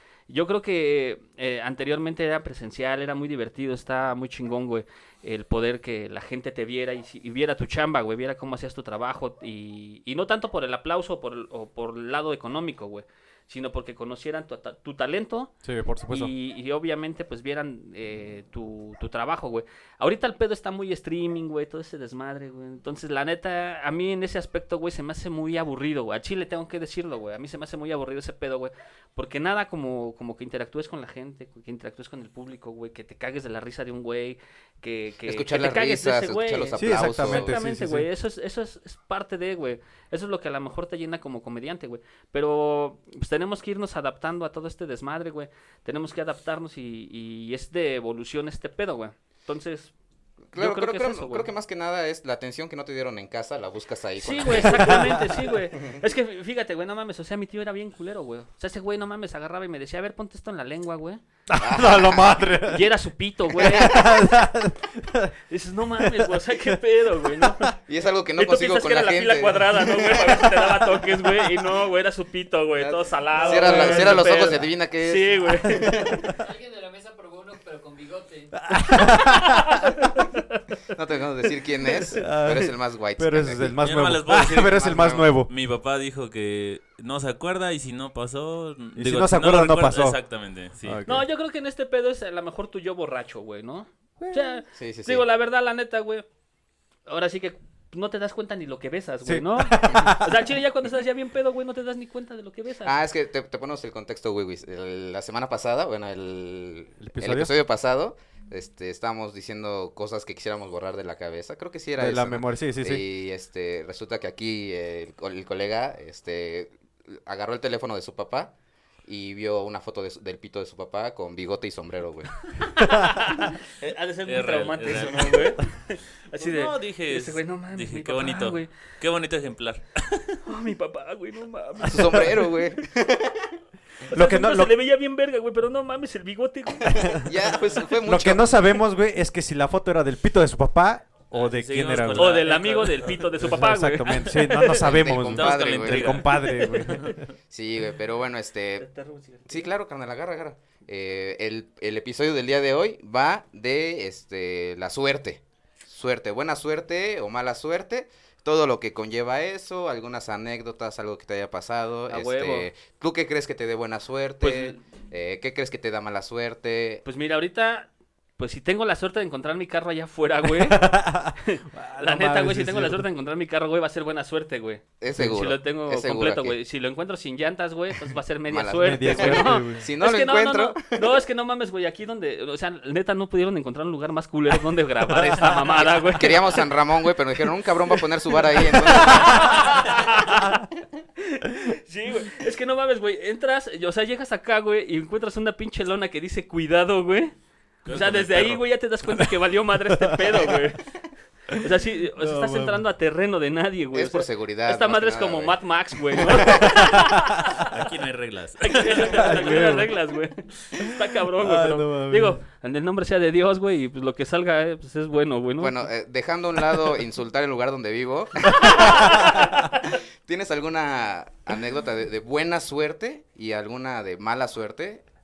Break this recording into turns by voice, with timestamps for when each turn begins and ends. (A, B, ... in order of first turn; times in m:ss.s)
0:00.3-0:15.5 A
0:15.6-0:16.3 B
0:16.1-0:49.9 A
0:35.2-0:37.5 C
0:36.8-0:38.1 B
0:50.5-0:56.0 C
0:50.6-0:51.5 A
0:54.2-1:01.2 A
0:54.5-0:55.2 B
1:01.5-1:02.9 B
1:01.6-1:02.4 C
1:02.6-1:04.0 A
1:03.6-1:05.3 B
1:03.6-1:04.2 C
1:05.5-1:07.7 A
1:06.0-1:07.7 B
1:07.9-1:10.8 C
1:08.4-1:16.3 A
1:11.2-1:11.5 B
1:12.7-1:15.6 C
1:13.3-1:14.3 B
1:15.6-1:16.4 B
1:16.2-1:18.6 D
1:18.5-1:19.9 B
1:19.0-1:20.8 A
1:20.9-1:23.8 C
1:22.1-1:25.5 B
1:23.8-1:31.0 E
1:24.6-1:25.3 C
1:29.0-1:30.2 B
1:30.8-1:31.2 B
1:31.0-1:36.2 A
1:34.2-1:34.6 B
1:34.7-1:35.2 C
1:37.1-1:42.9 A
1:39.2-1:40.5 B
1:42.8-1:58.5 C
1:47.0-1:47.5 B
1:52.0-1:53.0 B
1:59.0-2:02.4 C
2:02.7-2:08.7 A
2:04.3-2:05.6 E
2:06.4-2:10.3 E
2:10.4-2:12.8 A
2:11.8-2:13.5 C
2:14.1-2:17.3 A
2:14.1-2:14.7 B
2:16.9-2:17.2 B
2:17.0-2:18.6 C
2:18.0-2:22.4 B
2:21.3-2:23.4 E
2:22.0-2:24.9 A
2:23.4-2:27.2 B
2:24.7-2:26.2 C
2:25.1-2:27.3 E
2:26.3-2:27.1 A
2:27.5-2:28.8 C
2:28.8-2:29.7 A
2:29.5-2:47.0 C
2:42.1-2:42.7 A
2:44.4-2:44.8 A
2:47.0-3:06.6 A
2:50.5-2:53.0 B
2:55.0-2:56.6 C
2:58.5-3:01.0 C
2:58.8-2:59.8 B
3:05.1-3:05.4 B
3:05.7-3:09.6 C
3:08.5-3:17.3 A
3:17.8-3:18.6 E
3:17.9-3:20.9 A
3:19.8-3:20.6 B
3:21.5-3:27.7 A
3:22.2-3:22.8 B
3:23.9-3:25.6 C
3:26.1-3:26.8 C
3:26.4-3:27.8 B
3:27.6-3:29.5 E
3:28.6-3:35.7 A
3:29.0-3:29.9 B
3:30.8-3:32.4 B
3:35.6-3:45.0 C
3:38.5-3:39.8 A